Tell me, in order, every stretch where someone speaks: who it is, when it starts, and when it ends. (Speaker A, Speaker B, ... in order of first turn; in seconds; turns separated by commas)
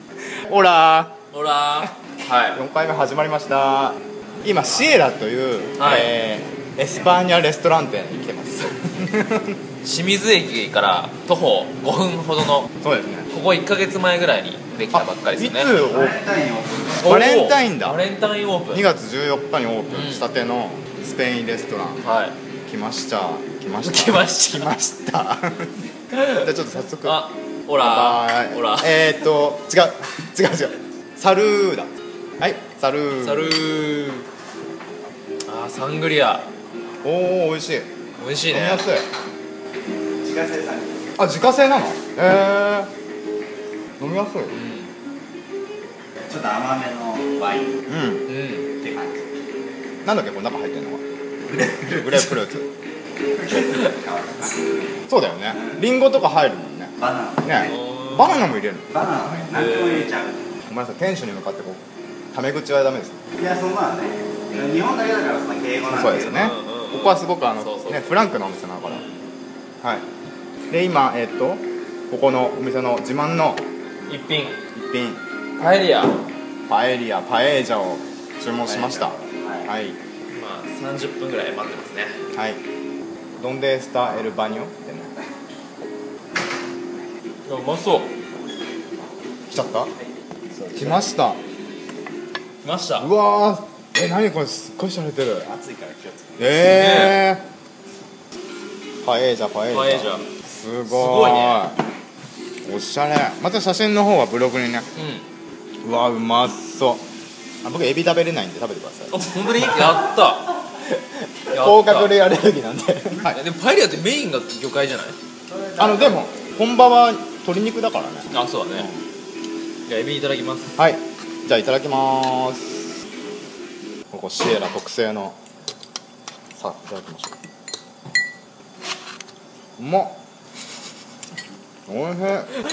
Speaker A: 0.4-1.1, Speaker B: 1.3-2.6, Speaker A: 2.5-9.6, Speaker B: 5.8-6.1, Speaker B: 9.8-12.7, Speaker A: 12.8-13.3, Speaker B: 13.3-15.7, Speaker A: 14.9-16.2, Speaker C: 15.7-17.1, Speaker A: 17.0-18.0, Speaker B: 17.0-18.8, Speaker A: 18.7-22.0, Speaker B: 19.9-20.2, Speaker B: 22.0-22.3, Speaker A: 22.7-27.2, Speaker B: 23.8-24.7, Speaker B: 27.0-28.9, Speaker A: 27.8-33.6, Speaker B: 33.2-34.3, Speaker B: 35.5-36.5, Speaker A: 37.0-37.9, Speaker B: 38.2-38.8, Speaker A: 38.5-39.0, Speaker C: 40.2-41.2, Speaker A: 41.2-42.9, Speaker A: 44.0-44.5, Speaker B: 44.5-44.9, Speaker C: 46.3-47.8, Speaker A: 47.9-48.3, Speaker B: 48.3-48.7, Speaker C: 48.8-49.2, Speaker A: 50.0-51.0, Speaker C: 51.5-52.4, Speaker A: 51.9-52.7, Speaker C: 53.3-54.8, Speaker A: 55.1-59.4, Speaker C: 57.0-57.8, Speaker B: 57.7-58.5, Speaker C: 58.9-60.6, Speaker B: 59.5-60.1, Speaker A: 60.7-61.8, Speaker A: 62.3-63.2, Speaker C: 63.4-66.5, Speaker A: 65.9-69.0, Speaker B: 66.3-68.1, Speaker B: 68.8-69.1, Speaker A: 70.7-73.6, Speaker B: 74.1-74.6, Speaker A: 74.7-75.2, Speaker B: 75.6-76.2, Speaker A: 76.7-80.0, Speaker C: 78.7-79.7, Speaker B: 80.3-82.2, Speaker A: 82.3-82.6, Speaker A: 83.4-85.1, Speaker B: 87.5-88.1, Speaker A: 89.5-89.9, Speaker C: 90.5-91.0, Speaker A: 90.8-91.4, Speaker B: 92.6-93.1, Speaker A: 93.0-95.5, Speaker C: 95.4-96.7, Speaker A: 96.4-97.4, Speaker B: 96.6-97.2, Speaker A: 99.0-101.8, Speaker B: 99.7-100.3, Speaker B: 100.9-101.6, Speaker A: 102.6-104.9, Speaker B: 105.0-105.2, Speaker A: 105.8-107.0, Speaker A: 107.6-109.2, Speaker B: 109.1-110.6, Speaker A: 111.5-113.4, Speaker B: 111.5-112.2, Speaker B: 113.2-115.2, Speaker C: 115.5-116.2, Speaker A: 115.8-119.0, Speaker B: 118.3-118.9, Speaker B: 119.9-120.8, Speaker A: 120.8-122.9, Speaker A: 124.1-125.3, Speaker A: 126.5-127.3, Speaker A: 129.8-130.2, Speaker A: 131.9-132.6